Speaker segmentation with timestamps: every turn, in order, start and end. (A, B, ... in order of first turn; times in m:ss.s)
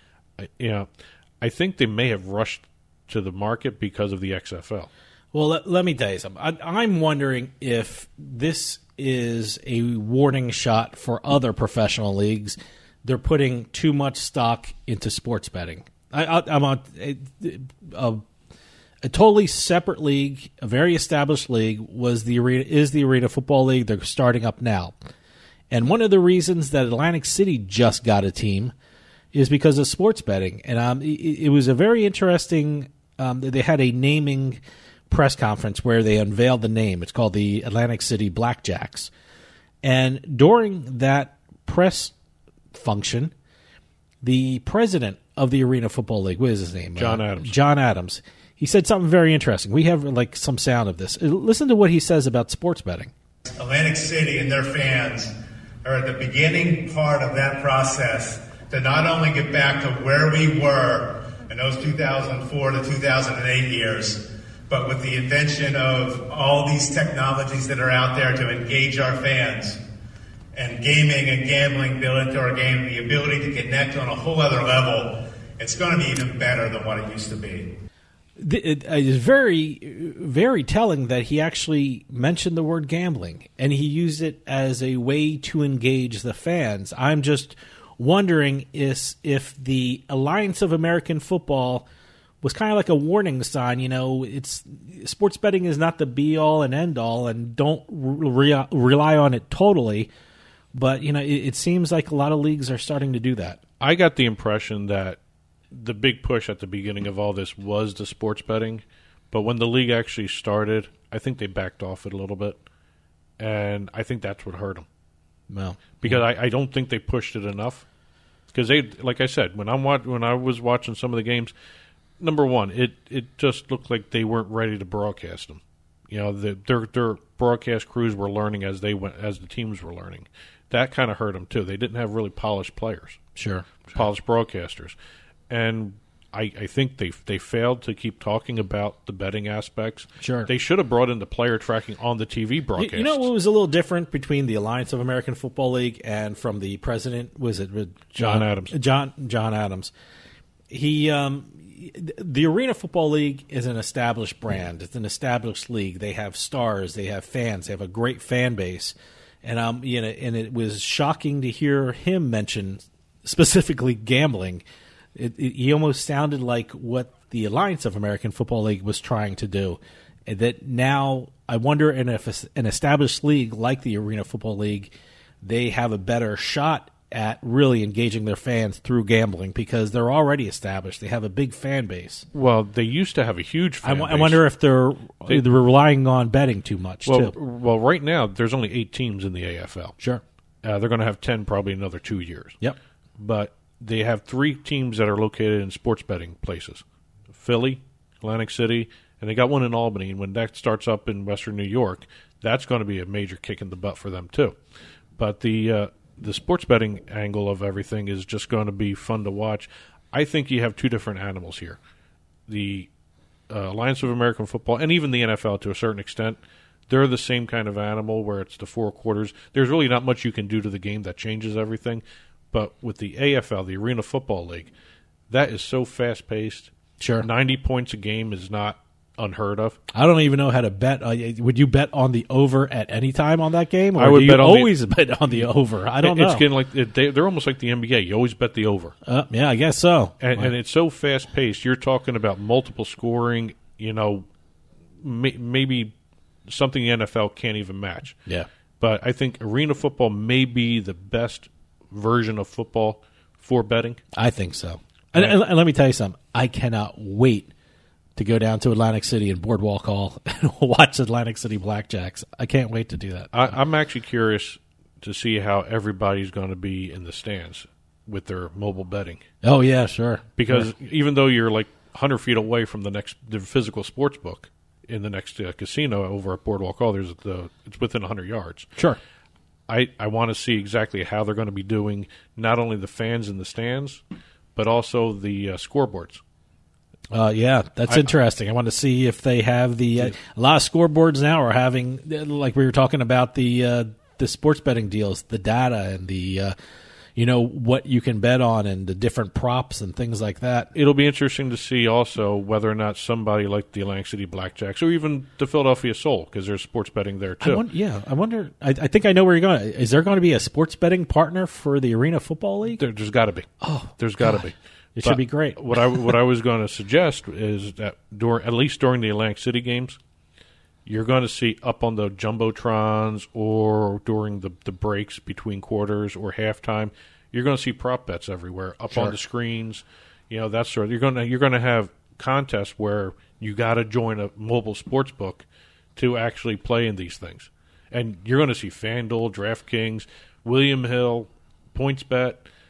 0:00.4-0:00.9 A
0:01.4-0:04.9 A
0:05.3-0:18.2 B
0:19.0-0:25.0 B
0:25.7-0:28.7 B
0:29.3-0:39.1 B
0:39.8-0:42.1 B
0:42.7-0:43.3 B
0:44.2-0:53.1 B
0:47.0-0:47.6 A
0:53.6-0:55.3 C
0:55.8-1:09.8 C
1:10.6-1:17.7 C
1:18.4-1:31.9 B
1:32.4-1:40.1 B
1:40.7-1:43.6 B
1:43.8-1:45.2 A
1:45.7-1:52.6 A
1:53.4-1:54.9 A
1:55.5-1:56.2 B
1:56.0-1:57.9 A
1:58.5-2:01.5 A
2:02.2-2:13.2 A
2:13.4-2:13.8 B
2:13.9-2:15.0 A
2:15.5-2:23.3 A
2:20.2-2:20.5 B
2:22.8-2:29.9 B
2:28.2-2:28.8 A
2:30.7-2:44.6 B
2:45.2-3:02.3 B
3:02.3-3:04.5 A
3:03.8-3:07.3 B
3:07.1-3:10.0 A
3:10.6-3:12.6 A
3:13.2-3:24.6 A
3:25.2-3:31.8 A
3:32.5-3:32.9 A
3:33.5-3:44.7 A
3:45.3-3:49.8 A
3:47.0-3:47.3 B
3:49.9-3:56.5 B
3:54.0-3:55.5 A
3:56.0-3:59.0 A
3:59.0-4:00.5 B
4:00.2-4:04.3 A
4:05.0-4:05.9 A
4:06.5-4:08.2 A
4:08.8-4:14.0 A
4:14.1-4:17.5 B
4:15.1-4:15.4 A
4:18.2-4:23.3 B
4:23.3-4:29.2 A
4:29.4-4:30.7 B
4:30.4-4:38.7 A
4:39.7-4:44.0 A
4:44.6-4:46.2 A
4:47.1-4:56.6 B
4:47.9-4:48.1 A
4:57.2-5:00.7 B
5:00.7-5:07.6 A
5:07.4-5:12.8 B
5:12.7-5:20.0 A
5:13.6-5:16.2 B
5:20.9-5:35.4 A
5:28.9-5:29.2 B
5:36.0-5:42.5 A